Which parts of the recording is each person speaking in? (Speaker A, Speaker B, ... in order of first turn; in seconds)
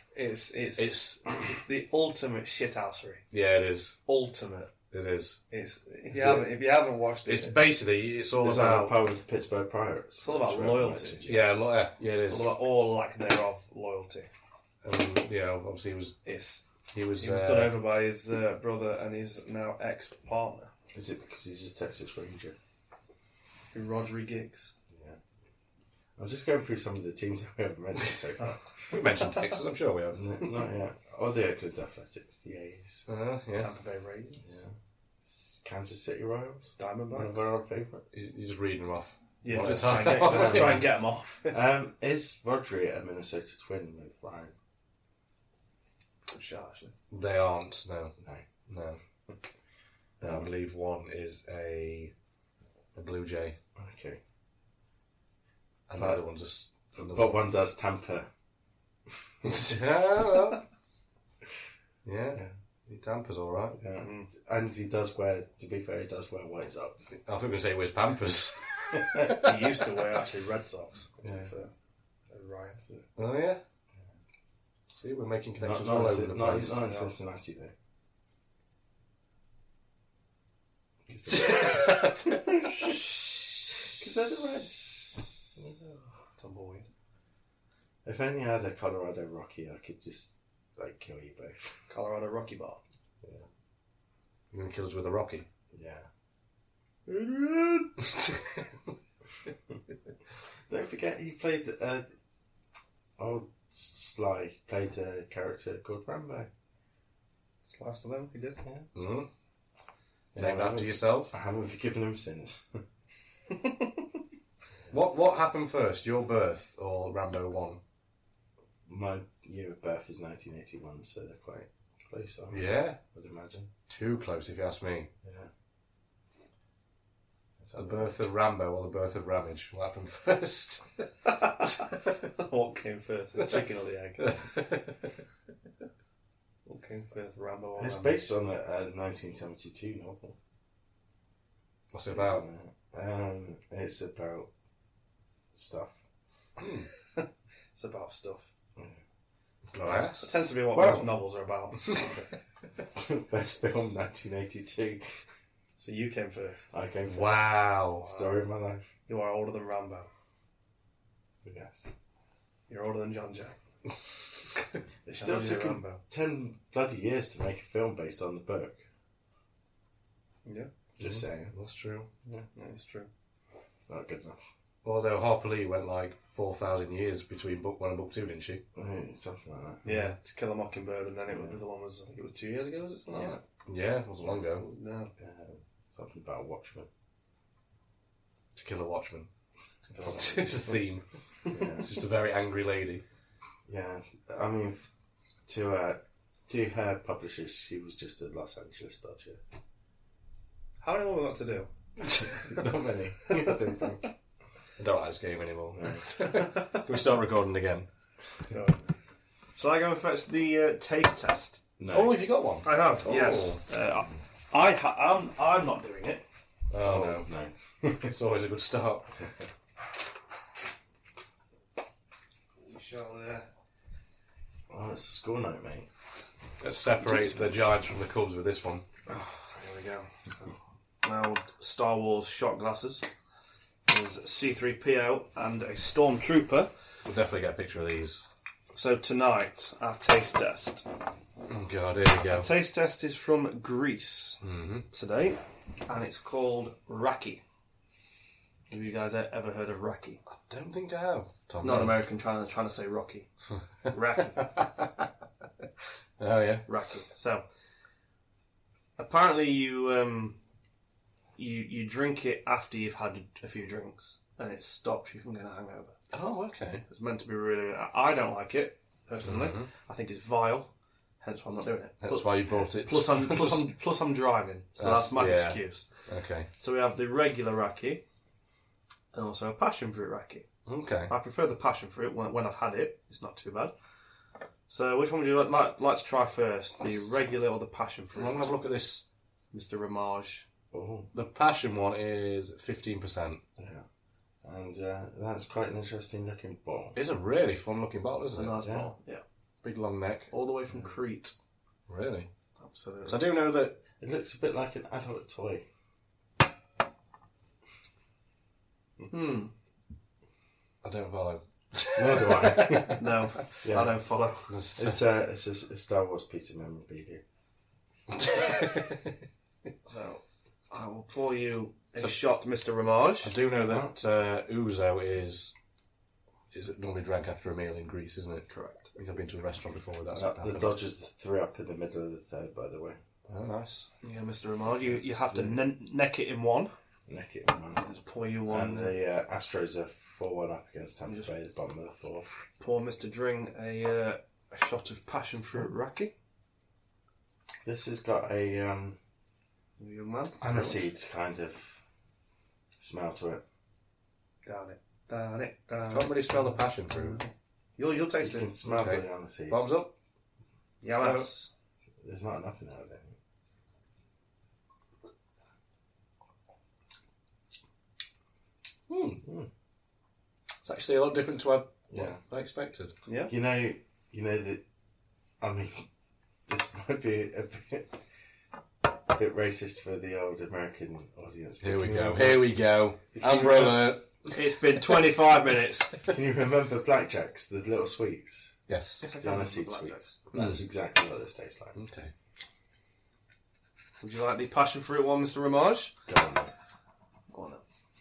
Speaker A: 0.1-3.2, 4.1-4.7, 5.5-7.6, 10.2-11.3, 12.3-14.3, 16.2-16.6, 17.2-20.7, 23.7-24.7, 33.6-34.4, 36.8-37.5, 39.4-41.6, 46.3-46.9, 64.0-64.3, 69.3-71.7, 72.3-72.8, 76.8-77.1, 81.5-82.2, 86.4-86.9, 91.9-92.8, 107.7-108.6, 131.3-134.4, 136.7-138.3, 147.1-148.5, 149.8-152.1, 155.8-156.7, 158.0-158.4, 159.1-160.1, 162.7-163.6, 165.2-166.0, 170.4-170.7, 172.6-173.1, 179.8-183.4, 184.3-185.1, 200.8-202.3, 208.5-208.8, 209.6-211.6, 212.6-216.2, 222.6-223.5, 229.1-233.1, 233.9-236.7, 238.8-240.9, 242.3-247.4, 248.7-250.2, 251.6-253.3, 253.9-254.5, 256.7-257.5, 259.0-260.4, 261.4-266.0, 266.9-275.9, 276.6-278.0, 279.1-280.5, 281.1-283.7, 284.7-288.5, 289.5-290.4, 298.3-299.2, 300.3-301.3, 302.6-303.2, 309.1-309.5, 312.8-314.5, 319.9-323.4, 328.5-328.9, 334.0-336.7, 337.8-339.0, 341.1-341.3, 342.6-346.1, 349.8-350.8, 354.4-357.2, 357.8-358.6, 360.8-361.5, 373.1-373.3, 384.3-386.1, 389.0-390.1, 394.0-395.9, 397.3-397.6
Speaker B: 0.8-1.2, 3.3-4.0, 4.9-5.4, 7.3-9.0, 11.2-12.6, 14.8-16.2, 16.9-17.8, 28.9-30.4, 33.1-33.7, 38.1-40.9, 47.1-48.1, 48.7-49.0, 50.2-52.1, 53.0-53.6, 55.9-57.4, 59.4-60.6, 62.0-63.8, 67.1-69.8, 73.2-73.6, 74.9-76.8, 94.5-95.5, 98.2-98.4, 109.0-109.3, 110.4-111.3, 114.9-117.8, 122.5-123.0, 123.9-125.1, 127.8-131.1, 134.2-135.0, 141.9-142.4, 146.6-146.9, 149.7-150.4, 157.1-158.1, 171.0-172.1, 174.8-178.6, 179.9-180.2, 183.7-184.7, 188.6-189.3, 190.0-191.0, 191.7-193.0, 204.8-207.9, 211.9-213.6, 216.7-217.3, 218.0-219.1, 226.6-228.8, 237.1-238.2, 241.5-242.5, 244.4-244.9, 250.3-252.1, 254.4-255.1, 256.2-256.7, 266.1-266.8, 269.2-269.7, 272.0-273.7, 274.8-276.5, 280.7-281.1, 288.1-289.0, 291.1-293.4, 297.0-298.6, 299.6-300.3, 301.9-302.3, 303.1-303.8, 310.8-313.4, 314.5-315.0, 318.1-319.0, 323.2-325.6, 326.5-330.8, 333.3-333.9, 355.9-357.2, 358.7-359.9, 360.9-361.3, 368.9-369.2, 370.6-372.9, 381.6-384.4, 388.7-389.1, 390.3-390.6, 391.8-392.1
Speaker C: 6.1-6.5, 8.4-11.5, 20.9-22.6, 24.9-25.2, 26.2-28.6, 30.1-33.1, 34.4-38.2, 39.6-40.9, 41.5-44.5, 48.2-48.5, 50.2-50.5, 53.8-54.2, 56.0-56.2, 57.0-58.3, 59.4-59.8, 63.8-67.1, 68.9-69.3, 71.2-71.5, 75.6-77.7, 81.1-83.2, 83.8-86.1, 88.0-91.8, 95.7-96.1, 97.1-98.0, 100.7-102.1, 103.2-106.5, 108.6-108.9, 110.3-112.8, 118.9-123.7, 125.2-125.5, 127.6-128.1, 137.8-140.4, 142.1-144.5, 145.5-146.0, 148.8-149.0, 150.8-151.1, 152.9-155.2, 156.7-158.9, 161.4-161.9, 165.1-168.8, 171.0-171.5, 173.9-174.4, 178.8-179.9, 181.3-181.6, 183.1-183.4, 185.2-186.9, 189.9-190.8, 191.5-191.9, 193.7-194.9, 195.5-199.4, 202.2-204.1, 205.7-206.1, 211.8-212.2, 216.8-218.1, 224.7-225.9, 290.7-291.1, 293.6-293.9, 294.4-297.0, 298.6-298.9, 304.0-305.7, 311.9-313.0, 313.6-314.0, 314.8-317.2, 323.7-323.9, 330.1-333.0, 335.3-335.6, 337.1-337.9, 338.5-342.3, 347.6-349.0, 350.4-351.8, 352.8-353.4, 358.2-359.6, 362.0-363.2, 369.2-369.5, 371.9-372.2, 373.3-374.6, 375.4-375.9, 376.5-378.0, 378.9-382.6, 383.2-383.9, 386.1-388.6, 389.2-391.8, 396.1-396.5